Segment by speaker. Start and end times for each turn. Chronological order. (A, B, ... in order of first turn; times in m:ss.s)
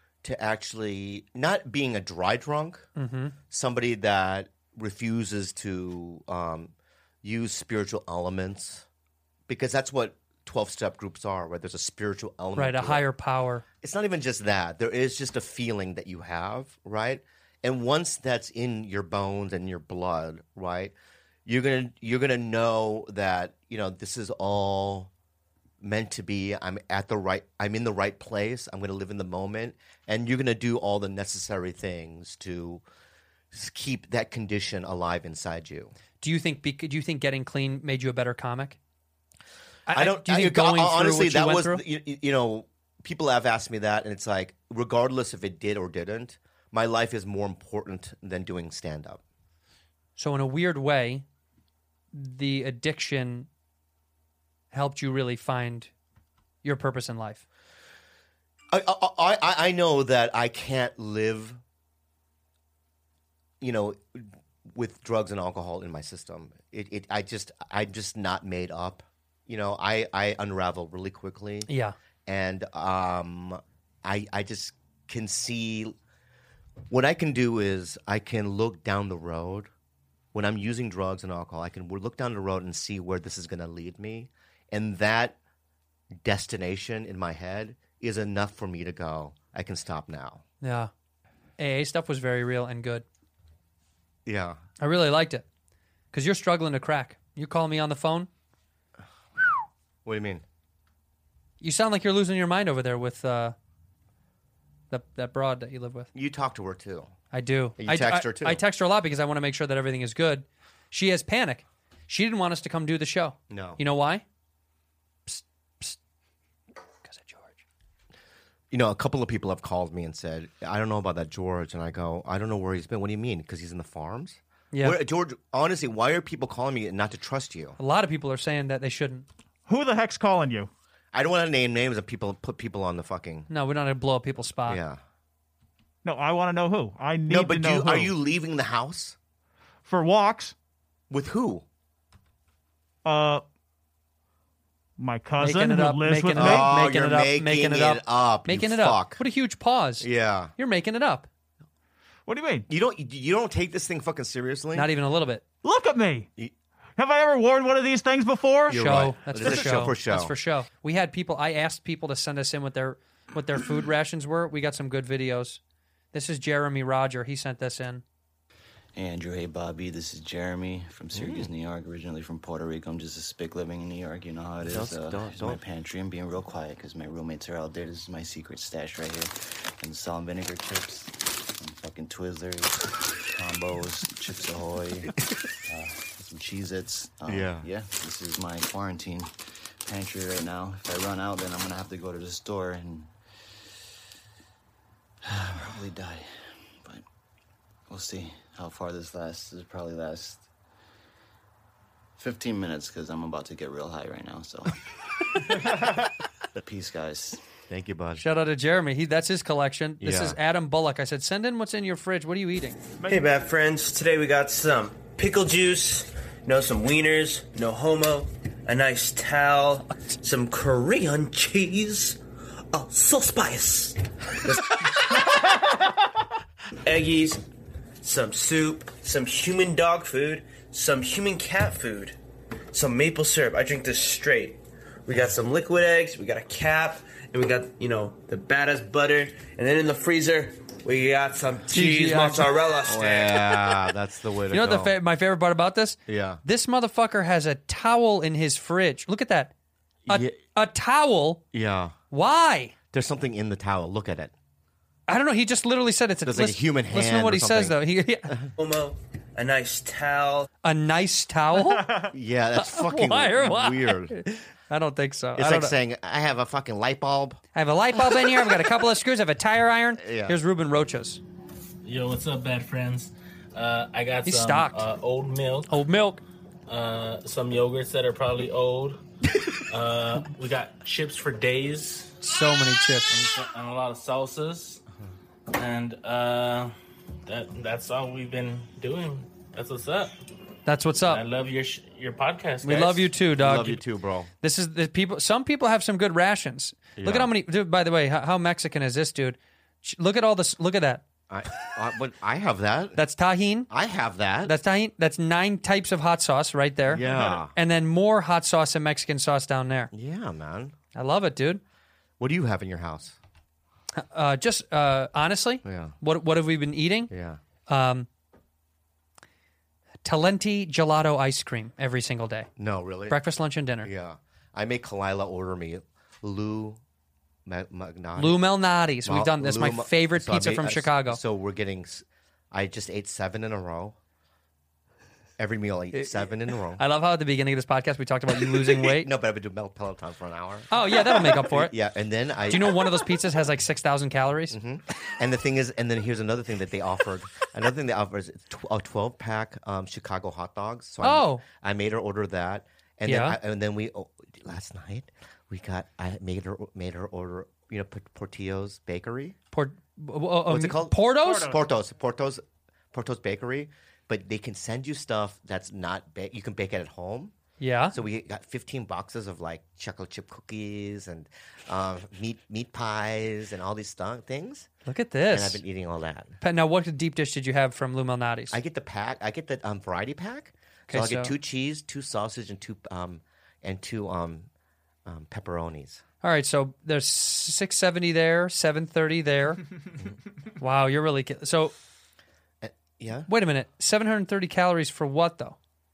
0:00.2-0:02.8 A
0:03.0-0:03.3 B
0:03.5-0:08.8 A
0:09.5-0:13.0 A
0:12.6-0:13.6 B
0:13.8-0:20.9 A
0:21.4-0:25.1 A
0:25.8-0:32.8 A
0:33.5-0:35.9 A
0:36.2-0:38.8 B
0:39.9-0:41.8 B
0:39.9-0:49.2 A
0:50.2-0:51.2 B
0:52.1-0:53.5 B
0:54.7-0:55.9 B
0:56.6-0:57.4 B
0:58.7-1:01.6 A
1:03.6-1:11.7 A
1:11.7-1:11.9 B
1:12.2-1:15.9 A
1:16.9-1:19.7 A
1:20.3-1:25.4 A
1:26.2-1:30.4 A
1:30.6-1:30.9 B
1:31.6-1:33.0 B
1:34.2-1:34.6 A
1:34.8-1:35.4 B
1:36.1-1:38.3 B
1:40.0-1:40.4 A
1:41.6-1:43.5 B
1:44.9-1:46.1 B
1:46.1-1:47.1 A
1:47.3-1:54.2 B
1:47.8-1:48.6 A
1:53.5-1:53.8 A
1:55.3-1:56.0 B
1:57.0-1:57.6 B
1:58.7-2:07.8 A
2:04.7-2:05.0 B
2:07.8-2:09.2 B
2:09.7-2:10.7 C
2:11.1-2:13.5 A
2:13.5-2:14.8 B
2:14.6-2:15.0 A
2:16.0-2:18.1 C
2:17.3-2:19.2 A
2:19.8-2:20.5 C
2:21.1-2:21.6 A
2:23.0-2:23.4 C
2:25.0-2:26.7 C
2:25.4-2:31.3 B
2:26.3-2:29.2 A
2:30.0-2:30.5 A
2:32.3-2:32.6 C
2:32.7-2:34.9 A
2:34.7-2:35.4 B
2:35.6-2:36.3 C
2:37.0-2:38.9 C
2:38.7-2:40.3 A
2:38.7-2:45.6 B
2:46.1-2:48.0 B
2:48.9-3:05.1 D
2:51.1-2:51.5 A
2:54.6-2:55.6 A
3:03.4-3:03.9 A
3:05.7-3:09.3 D
3:07.3-3:07.7 A
3:09.8-3:13.1 D
3:15.2-3:16.3 D
3:17.9-3:20.4 D
3:22.2-3:24.8 D
3:25.4-3:25.8 D
3:26.6-3:27.4 D
3:27.7-3:28.2 A
3:28.2-3:32.8 B
3:30.0-3:30.4 A
3:33.0-3:42.2 E
3:42.7-3:45.6 E
3:46.8-3:47.4 E
3:48.0-3:52.2 E
3:52.7-4:03.5 E
4:01.7-4:02.5 B
4:02.8-4:05.0 A
4:04.5-4:09.5 B
4:06.1-4:06.4 A
4:10.1-4:10.4 A
4:10.1-4:11.4 B
4:11.5-4:11.9 A
4:12.1-4:12.7 B
4:12.9-4:14.3 A
4:15.1-4:18.4 B
4:16.2-4:18.5 A
4:18.6-4:20.5 E
4:20.6-4:21.9 B
4:21.6-4:22.1 C
4:22.1-4:24.1 A
4:22.6-4:25.7 B
4:25.4-4:27.4 A
4:27.5-4:31.2 B
4:28.1-4:28.4 A
4:30.0-4:30.4 A
4:31.8-4:35.7 F
4:34.2-4:34.8 B
4:35.7-4:36.2 B
4:36.7-4:39.0 F
4:39.7-4:42.1 F
4:42.2-4:43.1 B
4:43.1-4:44.8 F
4:45.5-4:46.7 F
4:47.2-4:50.1 F
4:50.6-4:51.2 B
4:51.0-4:53.1 F
4:52.6-4:53.8 B
4:53.4-4:54.3 A
4:54.4-5:01.0 B
4:57.0-4:57.3 A
5:01.3-5:03.0 A
5:03.0-5:03.7 B
5:03.7-5:04.5 A
5:04.4-5:09.9 B
5:06.9-5:07.5 A
5:09.9-5:10.7 A
5:10.9-5:11.6 B
5:12.2-5:13.2 A
5:14.0-5:17.1 B
5:15.6-5:16.0 A
5:17.1-5:17.4 A
5:17.7-5:18.1 B
5:20.0-5:22.5 B
5:22.6-5:23.2 A
5:23.1-5:23.9 B
5:23.8-5:26.8 A
5:27.4-5:28.4 A
5:28.2-5:31.2 B
5:29.0-5:34.0 A
5:35.4-5:36.8 A
5:36.8-5:39.1 B
5:38.4-5:42.9 A
5:40.7-5:41.7 B
5:42.5-5:44.6 B
5:44.5-5:59.4 A
5:51.0-5:51.4 B
5:53.1-5:53.4 B
5:59.5-6:01.6 B
6:00.5-6:07.3 A
6:07.6-6:08.0 B
6:07.9-6:14.7 A
6:14.8-6:15.6 B
6:15.3-6:16.4 A
6:16.4-6:18.6 B
6:18.5-6:24.5 A
6:20.9-6:21.3 B
6:25.0-6:26.0 A
6:26.2-6:29.6 B
6:30.6-6:31.7 B
6:32.6-6:33.3 A
6:33.3-6:35.6 B